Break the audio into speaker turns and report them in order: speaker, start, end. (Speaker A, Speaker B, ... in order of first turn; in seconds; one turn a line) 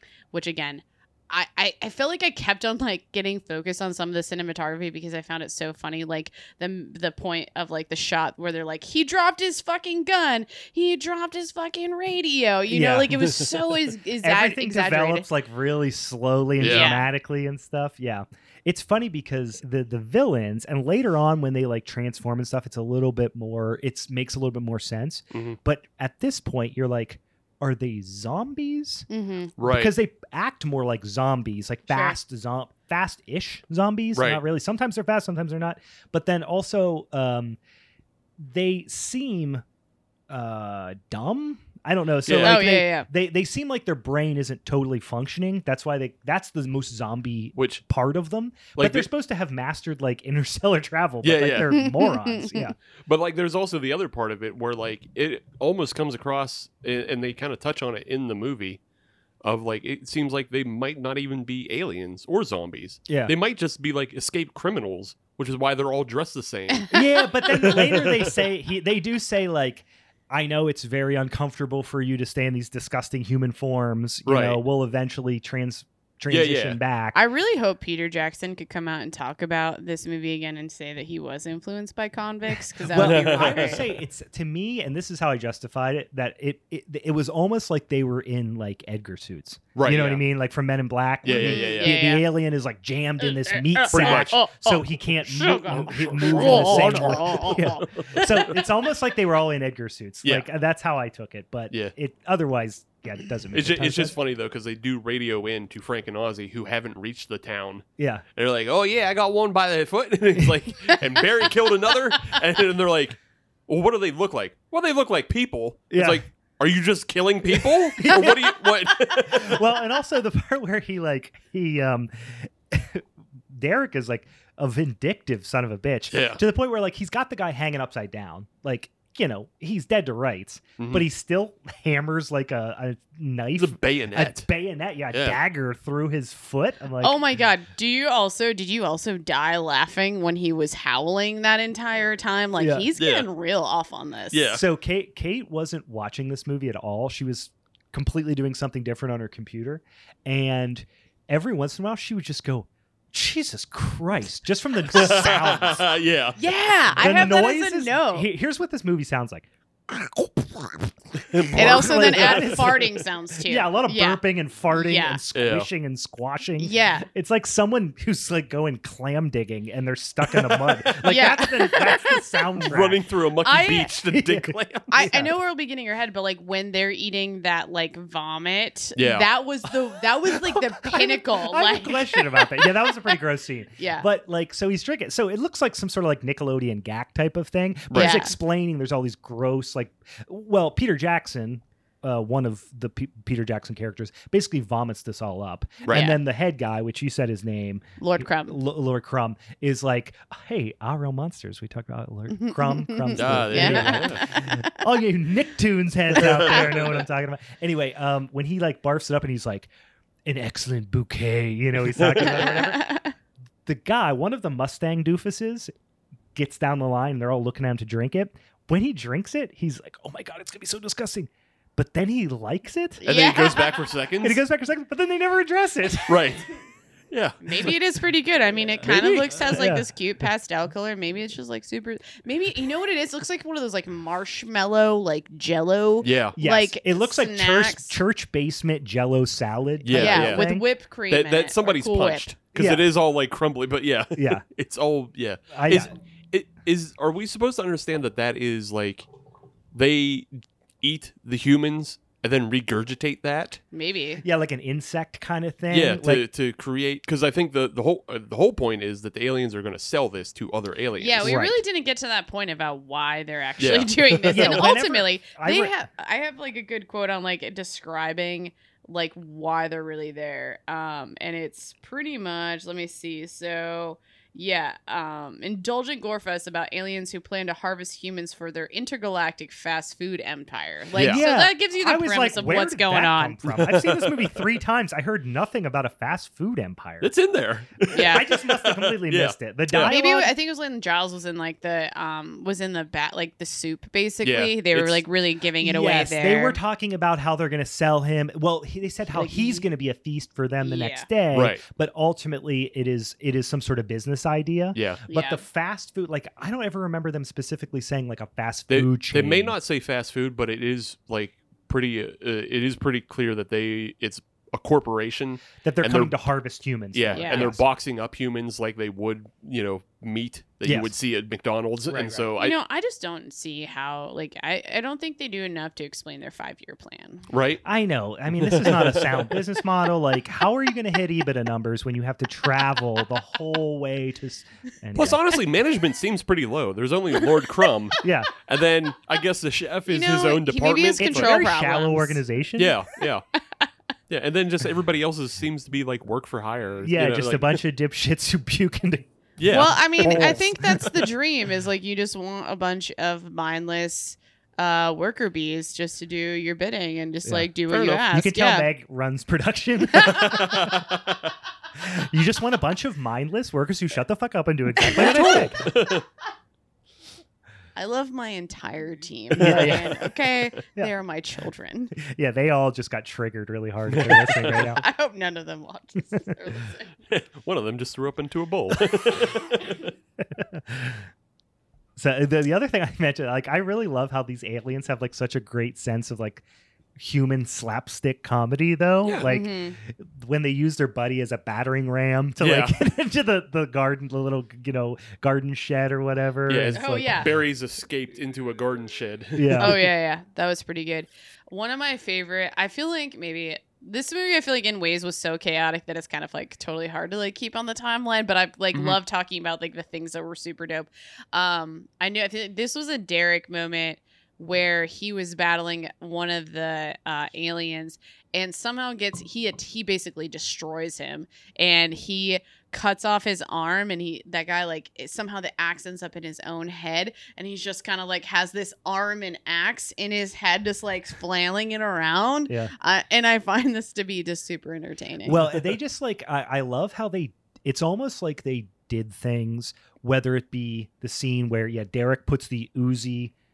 Speaker A: 0.3-15.3
Speaker B: 12.7-13.2
Speaker B: 14.2-29.1
Speaker C: 16.6-16.9
Speaker A: 16.6-17.1
Speaker A: 29.1-29.5
Speaker C: 29.6-29.9
Speaker B: 29.6-37.6
Speaker A: 31.9-32.1
Speaker C: 34.1-34.4
Speaker B: 38.4-39.6
Speaker B: 40.3-52.8
Speaker C: 42.3-42.6
Speaker A: 42.4-43.1
Speaker C: 47.6-47.8
Speaker C: 48.8-49.1
Speaker C: 51.2-51.7
Speaker A: 51.7-52.7
Speaker C: 53.1-58.8
Speaker C: 59.4-68.3
Speaker B: 63.1-63.3
Speaker B: 66.9-77.2
Speaker C: 74.3-74.6
Speaker C: 76.3-76.8
Speaker A: 77.1-83.8
Speaker B: 82.9-104.2
Speaker C: 82.9-84.0
Speaker C: 89.8-90.2
Speaker C: 91.2-92.0
Speaker A: 91.3-92.3
Speaker A: 93.2-98.5
Speaker C: 93.9-94.4
Speaker C: 95.7-98.5
Speaker C: 103.5-119.6
Speaker B: 108.0-108.2
Speaker B: 115.9-116.2
Speaker B: 117.6-137.2
Speaker C: 126.1-126.4
Speaker C: 130.8-131.1
Speaker C: 133.6-134.5
Speaker C: 135.1-135.4
Speaker A: 137.0-144.4
Speaker B: 142.6-142.9
Speaker C: 143.0-143.3
Speaker C: 144.3-144.6
Speaker B: 144.5-155.9
Speaker C: 154.9-156.4
Speaker A: 156.4-158.3
Speaker B: 157.0-173.0
Speaker C: 161.2-162.8
Speaker A: 161.5-165.2
Speaker C: 165.3-165.7
Speaker A: 166.6-167.1
Speaker A: 171.0-172.6
Speaker C: 172.6-175.0
Speaker A: 173.4-173.9
Speaker B: 174.1-175.3
Speaker A: 174.9-183.1
Speaker C: 179.0-179.3
Speaker B: 180.3-209.7
Speaker A: 183.8-184.1
Speaker C: 187.9-188.2
Speaker A: 187.9-188.3
Speaker C: 195.8-196.1
Speaker A: 195.9-196.2
Speaker A: 198.0-198.6
Speaker A: 202.3-204.7
Speaker C: 203.1-204.3
Speaker C: 206.2-207.0
Speaker B: 210.2-212.9
Speaker C: 212.0-212.5
Speaker A: 212.4-213.1
Speaker B: 213.7-215.7
Speaker B: 216.3-223.1
Speaker A: 223.0-223.8
Speaker C: 223.0-224.4
Speaker B: 224.2-226.3
Speaker C: 226.1-226.5
Speaker C: 227.1-227.8
Speaker A: 227.4-238.0
Speaker C: 228.8-229.5
Speaker B: 229.4-229.9
Speaker C: 236.0-236.4
Speaker B: 236.4-240.6
Speaker C: 239.8-240.5
Speaker A: 239.9-242.3
Speaker C: 241.1-249.1
Speaker B: 242.6-242.9
Speaker B: 244.2-244.4
Speaker B: 245.5-245.9
Speaker C: 249.7-250.3
Speaker C: 250.8-253.6
Speaker A: 253.7-254.2
Speaker B: 254.2-256.2
Speaker C: 255.7-261.4
Speaker A: 261.0-283.4
Speaker B: 261.2-261.6
Speaker C: 263.6-264.7
Speaker B: 264.3-265.7
Speaker C: 280.9-281.2
Speaker B: 281.0-287.1
Speaker C: 283.4-284.4
Speaker C: 287.0-290.0
Speaker A: 287.9-288.3
Speaker B: 287.9-290.3
Speaker A: 289.8-296.6
Speaker C: 294.2-295.0
Speaker B: 295.6-309.6
Speaker A: 299.1-299.7
Speaker A: 300.6-301.1
Speaker C: 301.3-301.6
Speaker C: 304.8-305.0
Speaker A: 305.1-305.4
Speaker C: 308.7-316.1
Speaker B: 315.6-317.6
Speaker C: 316.9-322.6
Speaker A: 317.1-317.5
Speaker B: 320.6-320.9
Speaker B: 321.9-322.3
Speaker A: 322.4-327.3
Speaker C: 327.3-327.6
Speaker B: 327.6-335.2
Speaker C: 328.4-329.4
Speaker C: 334.9-341.4
Speaker B: 338.0-338.3
Speaker A: 339.9-342.2
Speaker B: 341.0-342.8
Speaker C: 342.6-343.2
Speaker C: 344.1-347.6
Speaker B: 346.8-350.9
Speaker C: 349.4-350.4
Speaker A: 349.5-358.7
Speaker B: 357.2-361.0
Speaker C: 357.7-358.0
Speaker A: 360.0-360.4
Speaker C: 360.2-361.3
Speaker B: 361.8-365.7
Speaker A: 364.9-365.4
Speaker C: 364.9-366.1
Speaker A: 367.8-371.9
Speaker C: 369.4-370.1
Speaker B: 369.4-370.1
Speaker B: 372.0-374.8
Speaker C: 373.9-374.8
Speaker A: 374.7-376.9
Speaker C: 377.1-379.9
Speaker B: 380.2-381.0
Speaker B: 382.0-386.4
Speaker B: 387.0-397.3
Speaker C: 389.0-389.3
Speaker A: 389.2-389.8
Speaker C: 392.4-392.7
Speaker C: 396.5-399.8
Speaker A: 396.7-397.3
Speaker B: 399.4-399.9
Speaker A: 399.6-435.5
Speaker B: 435.2-443.3